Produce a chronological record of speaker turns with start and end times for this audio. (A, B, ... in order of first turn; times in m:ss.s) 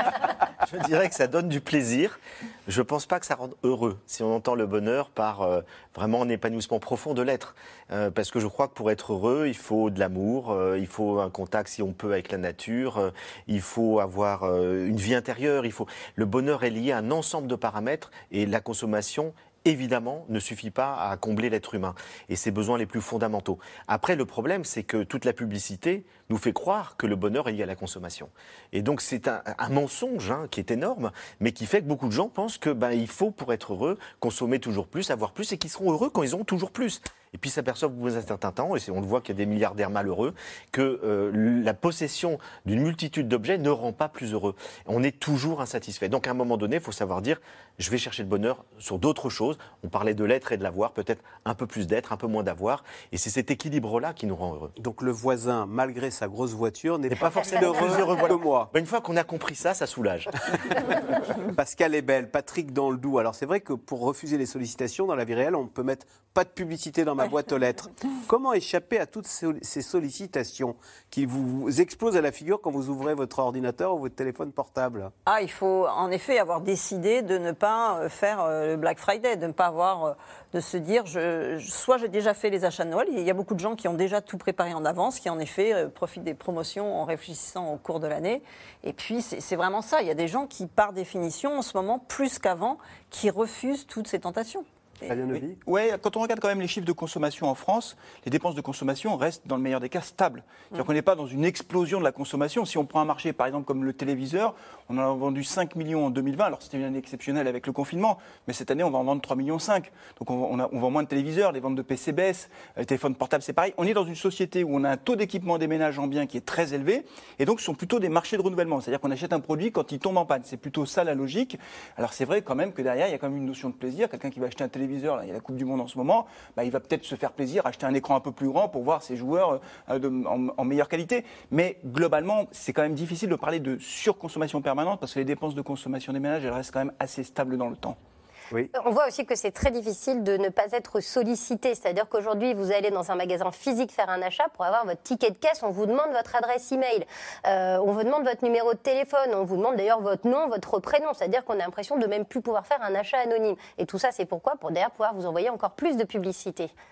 0:00.6-0:54.7 A
0:54.8-0:58.7 B
0:57.1-1:00.4 A
1:01.6-1:15.1 B
1:15.2-1:34.6 C
1:35.1-1:35.5 B
1:35.3-2:18.0 D
2:18.7-2:36.7 E